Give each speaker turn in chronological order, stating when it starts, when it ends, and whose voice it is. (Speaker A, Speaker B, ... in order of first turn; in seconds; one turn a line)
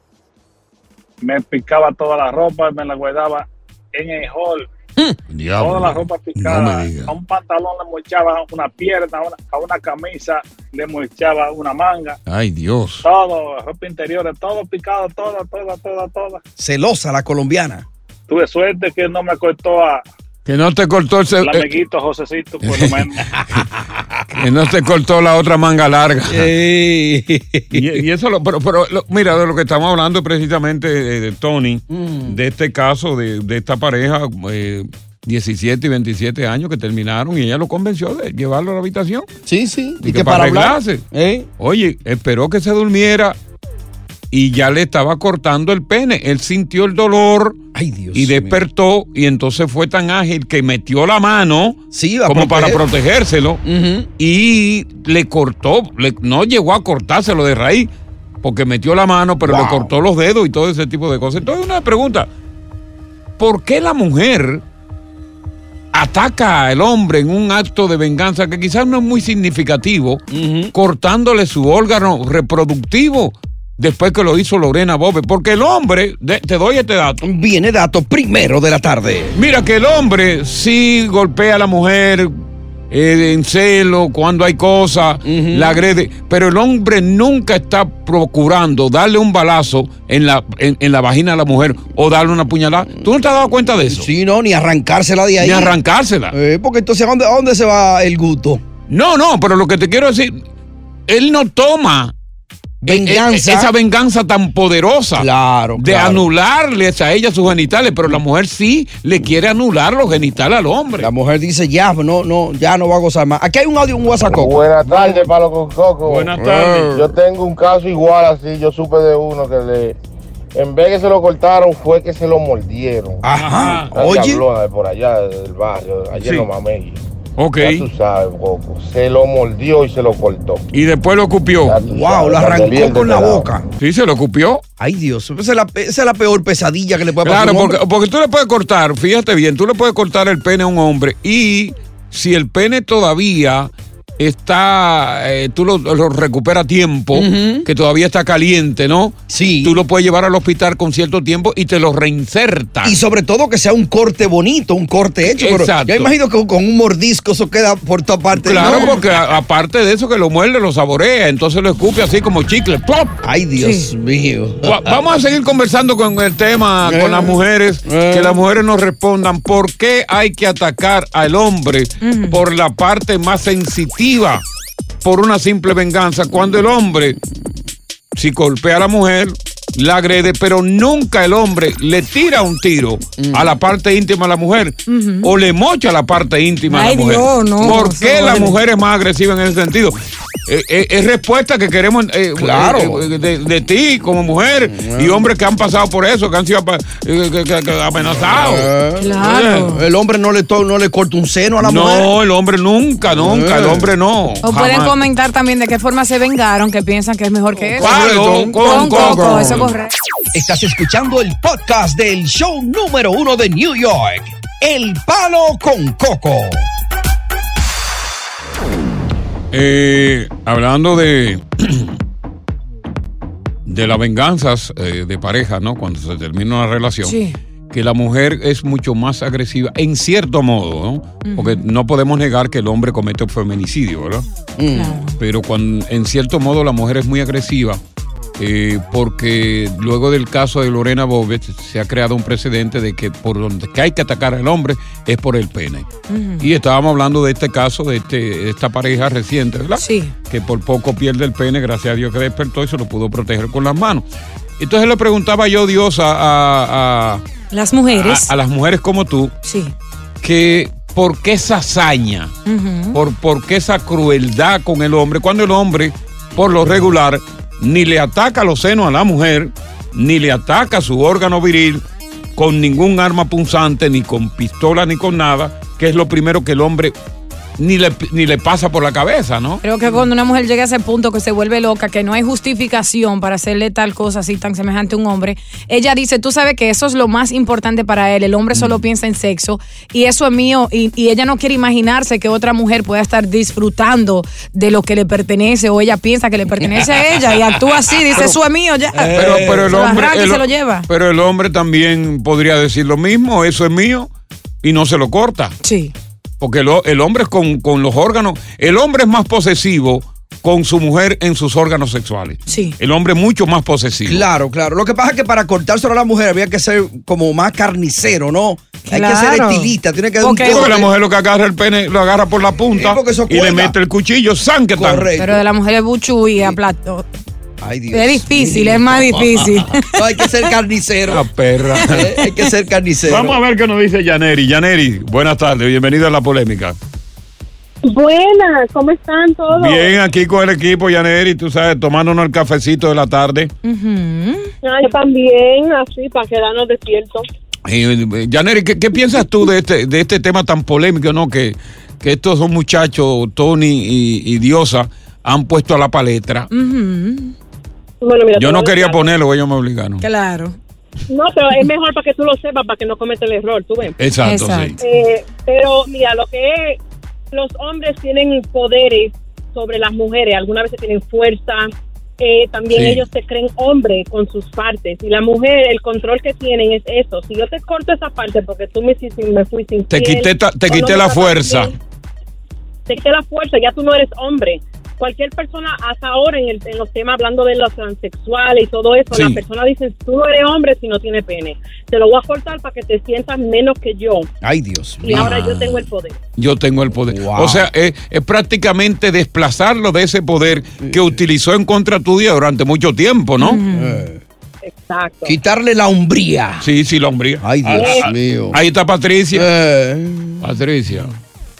Speaker A: 1.2-4.7
Speaker B: 5.3-7.1
Speaker A: 5.6-12.2
Speaker B: 12.3-13.1
Speaker A: 13.0-16.4
Speaker C: 16.6-17.8
Speaker A: 18.3-20.0
Speaker B: 20.4-21.7
Speaker A: 21.4-23.3
Speaker B: 22.6-23.6
Speaker B: 24.3-26.5
Speaker C: 26.3-28.0
Speaker B: 27.7-39.2
Speaker C: 31.9-32.4
Speaker C: 39.5-41.5
Speaker B: 40.0-41.0
Speaker B: 41.6-43.4
Speaker B: 44.3-47.6
Speaker C: 47.7-48.6
Speaker B: 48.1-53.6
Speaker C: 51.9-52.8
Speaker C: 53.6-54.1
Speaker B: 54.2-57.9
Speaker B: 58.4-62.3
Speaker C: 59.4-59.9
Speaker B: 63.4-64.6
Speaker B: 65.9-77.2
Speaker C: 70.3-70.7
Speaker C: 77.2-79.4
Speaker B: 79.3-82.3
Speaker B: 82.9-94.1
Speaker C: 85.2-85.8
Speaker C: 93.9-95.8
Speaker B: 95.4-96.3
Speaker C: 96.3-98.6
Speaker B: 98.9-100.4
Speaker B: 101.1-102.1
Speaker C: 102.8-103.7
Speaker B: 102.8-111.1
Speaker C: 105.2-106.3
Speaker C: 111.0-114.6
Speaker D: 114.3-116.3
Speaker B: 114.8-115.3
Speaker B: 116.0-117.0
Speaker C: 116.3-117.1
Speaker D: 116.9-120.0
Speaker D: 120.5-123.2
Speaker C: 123.2-124.4
Speaker B: 123.4-123.9
Speaker D: 123.9-127.0
Speaker B: 126.2-126.5
Speaker B: 127.4-127.9
Speaker D: 127.6-130.7
Speaker B: 130.7-131.8
Speaker D: 131.6-133.5
Speaker C: 131.9-133.6
Speaker B: 133.8-134.6
Speaker C: 134.8-137.8
Speaker B: 137.2-153.0
Speaker C: 147.1-147.7
Speaker C: 149.3-149.8
Speaker C: 152.8-159.0
Speaker B: 155.2-156.1
Speaker B: 158.3-163.2
Speaker C: 163.2-164.9
Speaker E: 163.6-163.9
Speaker B: 164.6-174.4
Speaker C: 166.8-168.4
Speaker E: 172.0-172.4
Speaker B: 175.0-177.2
Speaker B: 178.1-198.7
Speaker C: 183.2-183.5
Speaker E: 184.9-185.3
Speaker E: 186.7-188.6
Speaker C: 192.3-193.1
Speaker C: 194.7-195.3
Speaker C: 198.2-202.2
Speaker E: 199.0-199.8
Speaker B: 199.2-199.7
Speaker B: 201.6-205.0
Speaker C: 203.1-203.9
Speaker E: 204.4-209.9
Speaker C: 207.7-209.7
Speaker B: 207.8-209.7
Speaker C: 210.3-216.7
Speaker B: 219.5-221.9
Speaker B: 223.7-227.2
Speaker E: 227.0-227.3
Speaker B: 227.7-234.2
Speaker E: 231.2-231.6
Speaker C: 234.6-235.1
Speaker E: 234.7-235.2
Speaker B: 235.2-237.8
Speaker B: 238.4-245.9
Speaker E: 246.1-246.5
Speaker B: 246.4-254.0
Speaker E: 249.8-250.1
Speaker B: 254.6-257.2
Speaker E: 257.5-258.3
Speaker B: 257.9-259.3
Speaker E: 259.4-259.7
Speaker B: 260.2-262.4
Speaker E: 262.4-263.0
Speaker B: 262.9-271.8
Speaker B: 272.4-276.9
Speaker B: 277.6-279.6
Speaker E: 279.6-300.9
Speaker B: 288.5-288.8
Speaker C: 298.9-299.7
Speaker B: 299.1-304.1
Speaker B: 304.6-305.5
Speaker E: 305.6-305.9
Speaker B: 306.4-314.2
Speaker E: 312.5-312.7
Speaker C: 314.1-320.9
Speaker E: 318.9-320.7
Speaker B: 320.4-325.1
Speaker C: 322.7-323.7
Speaker C: 324.7-325.4
Speaker E: 325.2-327.1
Speaker C: 327.6-331.3
Speaker E: 327.9-330.5
Speaker B: 331.1-332.1
Speaker C: 331.8-333.4
Speaker B: 333.1-336.8
Speaker F: 337.8-339.9
Speaker B: 339.5-343.5
Speaker E: 343.6-344.5
Speaker F: 344.6-347.2
Speaker B: 347.6-356.5
Speaker E: 356.5-357.3
Speaker F: 358.0-359.1
Speaker B: 358.4-360.0
Speaker E: 360.0-360.6
Speaker F: 361.1-364.0
Speaker B: 364.0-364.8
Speaker E: 364.2-364.8
Speaker F: 364.8-366.8
Speaker F: 367.3-381.7
Speaker B: 372.7-373.0
Speaker B: 379.9-381.7
Speaker F: 382.9-394.3
Speaker B: 389.1-389.4
Speaker C: 394.4-395.4
Speaker F: 395.0-396.2
Speaker B: 395.1-403.6
Speaker C: 397.1-397.7
Speaker C: 400.8-401.1
Speaker E: 403.4-404.1
Speaker C: 403.7-404.2
Speaker F: 404.6-405.4
Speaker C: 405.2-406.7
Speaker B: 406.6-409.5
Speaker C: 407.4-408.6
Speaker C: 409.3-410.5
Speaker B: 410.4-411.1